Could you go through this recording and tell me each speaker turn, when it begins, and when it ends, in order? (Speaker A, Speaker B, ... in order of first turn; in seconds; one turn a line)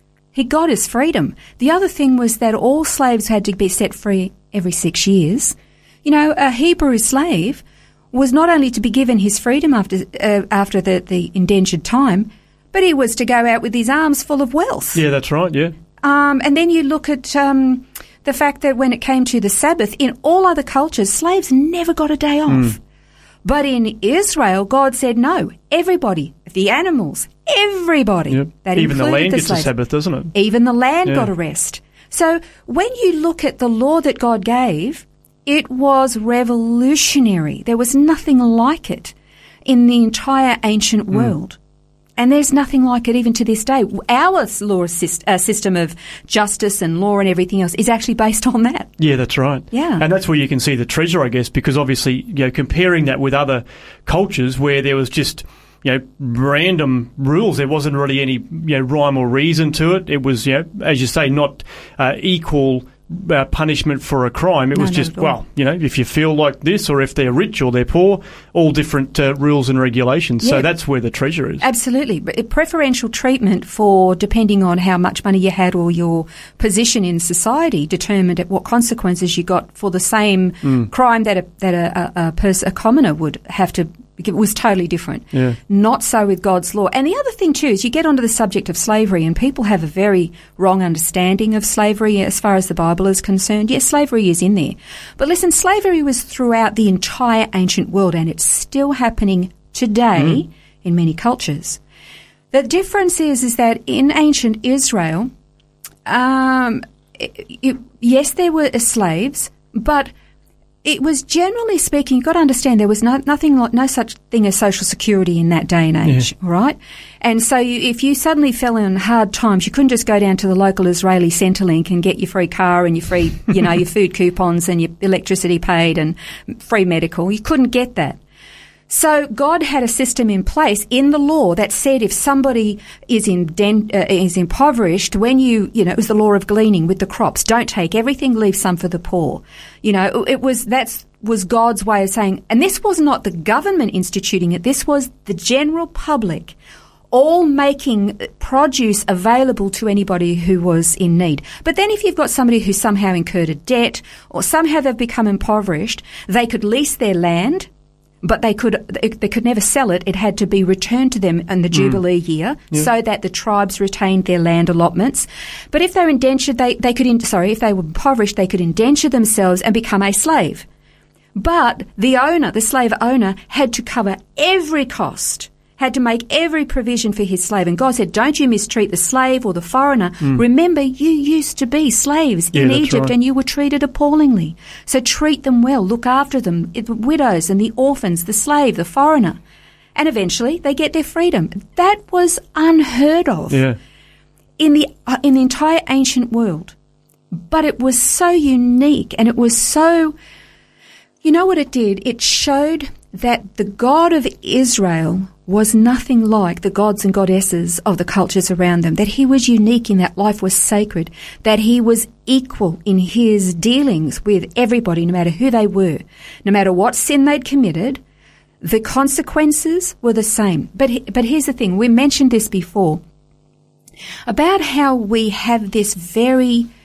Speaker A: 0.3-15.0
Speaker B: 14.9-15.8
Speaker A: 16.0-22.8
Speaker A: 23.4-29.7
Speaker B: 28.3-30.3
Speaker A: 30.3-39.1
Speaker A: 39.6-41.6
Speaker A: 42.2-48.9
Speaker B: 49.0-71.6
Speaker A: 49.7-50.1
Speaker A: 64.7-65.4
Speaker A: 70.4-70.7
Speaker A: 71.6-101.8
Speaker A: 102.5-105.3
Speaker A: 106.1-110.1
Speaker A: 110.8-128.2
Speaker A: 128.9-146.6
Speaker A: 147.1-157.7
Speaker A: 158.2-170.7
Speaker B: 161.7-162.0
Speaker A: 171.3-189.4
Speaker B: 182.5-183.1
Speaker A: 189.9-193.6
Speaker B: 193.5-193.8
Speaker A: 194.6-196.8
Speaker A: 197.3-200.2
Speaker A: 201.2-218.0
Speaker A: 218.6-223.0
Speaker A: 224.3-226.7